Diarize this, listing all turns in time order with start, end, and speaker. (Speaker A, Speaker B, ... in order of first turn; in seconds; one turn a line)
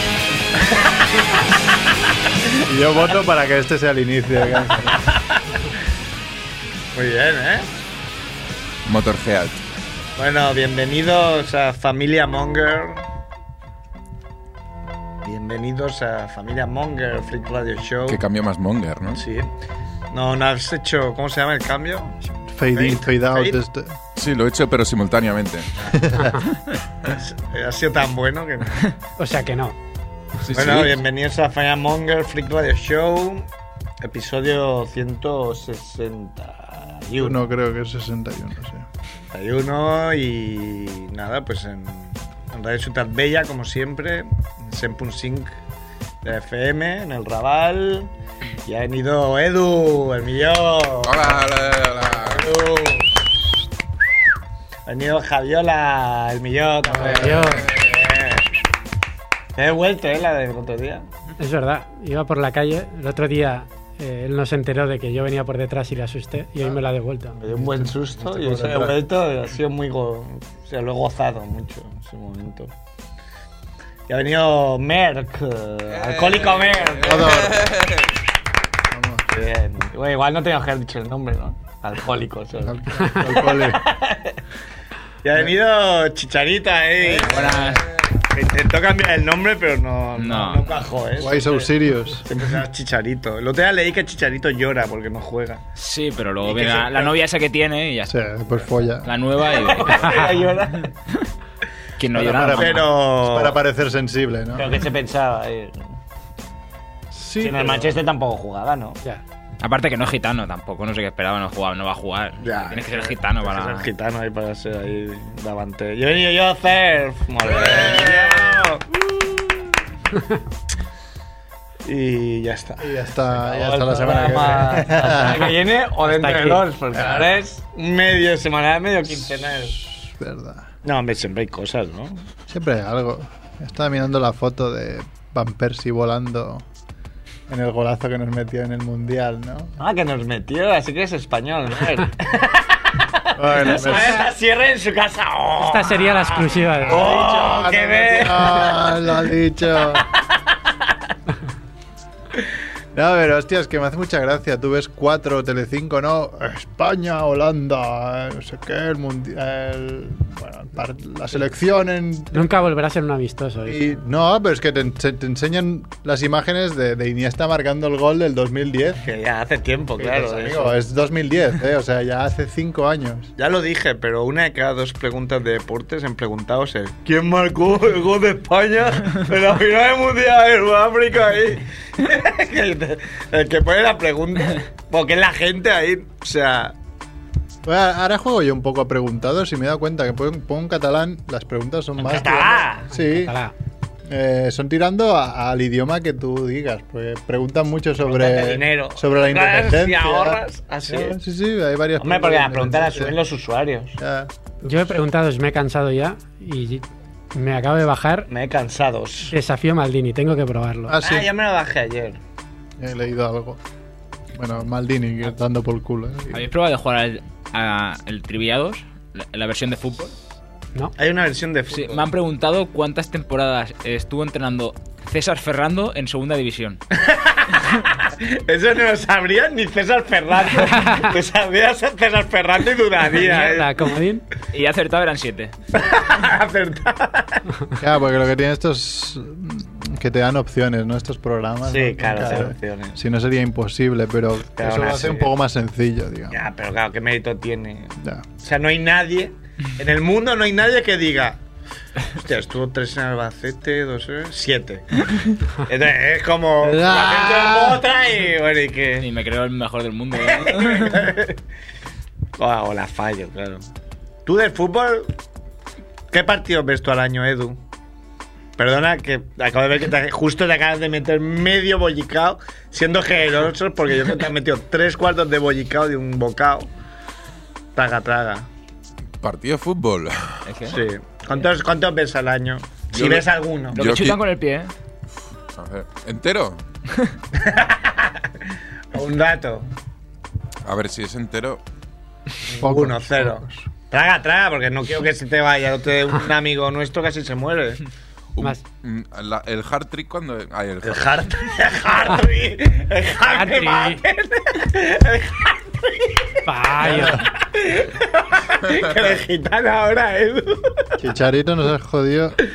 Speaker A: 0.6-1.4
Speaker A: 2.3-2.6
Speaker B: 2.6-5.1
Speaker A: 4.7-5.4
Speaker A: 6.9-7.7
Speaker C: 8.8-9.6
Speaker A: 10.2-13.0
Speaker A: 15.2-18.2
Speaker C: 18.1-19.2
Speaker A: 19.1-19.5
Speaker A: 20.1-22.2
Speaker B: 22.5-24.0
Speaker A: 22.7-23.6
Speaker C: 24.1-25.7
Speaker B: 25.9-26.4
Speaker A: 27.1-28.9
Speaker D: 29.2-29.8
Speaker C: 30.4-31.0
Speaker A: 30.5-33.5
Speaker A: 34.0-37.4
Speaker B: 37.2-38.9
Speaker A: 39.3-45.6
Speaker A: 46.2-48.1
Speaker A: 48.6-53.2
Speaker C: 51.0-52.5
Speaker A: 54.9-58.5
Speaker D: 57.1-57.7
Speaker A: 59.6-61.1
Speaker D: 61.4-67.4
Speaker A: 67.4-72.7
Speaker B: 67.5-69.0
Speaker A: 74.1-77.6
Speaker C: 75.9-78.2
Speaker B: 77.0-77.8
Speaker B: 78.9-79.3
Speaker A: 79.3-84.4
Speaker B: 82.6-83.9
Speaker A: 85.2-95.6
Speaker E: 87.2-87.8
Speaker E: 90.2-90.7
Speaker B: 91.2-92.3
Speaker E: 95.8-98.2
Speaker A: 96.4-97.2
Speaker B: 98.0-99.1
Speaker E: 99.0-100.4
Speaker A: 99.4-100.9
Speaker E: 102.0-102.9
Speaker B: 102.1-104.7
Speaker A: 102.5-103.6
Speaker A: 104.5-105.8
Speaker B: 107.1-108.0
Speaker A: 107.4-109.0
Speaker E: 109.6-113.9
Speaker A: 112.4-119.4
Speaker C: 117.4-118.6
Speaker A: 121.8-129.8
Speaker B: 122.8-125.5
Speaker D: 126.0-126.7
Speaker B: 127.0-127.3
Speaker B: 129.2-130.7
Speaker A: 130.8-132.3
Speaker B: 132.5-136.7
Speaker B: 137.5-139.7
Speaker A: 139.8-149.2
Speaker B: 143.4-144.2
Speaker D: 143.8-144.2
Speaker D: 145.6-147.1
Speaker B: 146.9-150.1
Speaker A: 149.8-150.9
Speaker B: 152.9-162.5
Speaker D: 162.3-163.8
Speaker B: 163.7-169.1
Speaker A: 169.0-170.8
Speaker B: 170.0-173.3
Speaker A: 173.4-186.8
Speaker B: 187.6-193.4
Speaker A: 192.0-192.9
Speaker D: 192.9-193.5
Speaker B: 194.1-203.2
Speaker A: 198.0-201.2
Speaker A: 202.0-204.0
Speaker B: 204.0-204.3
Speaker D: 204.6-208.3
Speaker A: 208.3-209.4
Speaker D: 209.3-211.0
Speaker B: 210.9-211.3
Speaker A: 211.0-212.2
Speaker B: 212.8-213.6
Speaker B: 214.3-216.5
Speaker E: 216.3-220.2
Speaker A: 221.0-222.1
Speaker E: 221.7-226.8
Speaker A: 226.9-233.9
Speaker D: 230.7-231.1
Speaker D: 233.1-234.3
Speaker E: 234.5-235.5
Speaker A: 235.7-237.4
Speaker B: 237.8-246.4
Speaker A: 241.7-243.0
Speaker A: 244.6-245.3
Speaker A: 246.3-251.4
Speaker B: 248.0-248.2
Speaker A: 252.1-259.1
Speaker B: 256.6-257.8
Speaker E: 259.0-261.1
Speaker A: 260.1-261.4
Speaker A: 262.4-263.6
Speaker A: 264.2-265.1
Speaker A: 266.1-267.6
Speaker A: 268.6-276.7
Speaker A: 277.8-278.5
Speaker C: 279.2-280.5
Speaker E: 280.4-280.8
Speaker A: 280.7-283.8
Speaker C: 282.9-284.2
Speaker E: 283.7-284.7
Speaker C: 285.5-286.6
Speaker A: 287.3-288.3
Speaker A: 288.9-289.7
Speaker C: 290.6-291.6
Speaker A: 292.5-297.8
Speaker B: 292.6-293.7
Speaker C: 298.4-301.2
Speaker A: 300.8-311.1
Speaker D: 303.2-304.0
Speaker D: 306.4-307.3
Speaker B: 306.8-307.2
Speaker C: 308.7-309.1
Speaker B: 311.0-312.4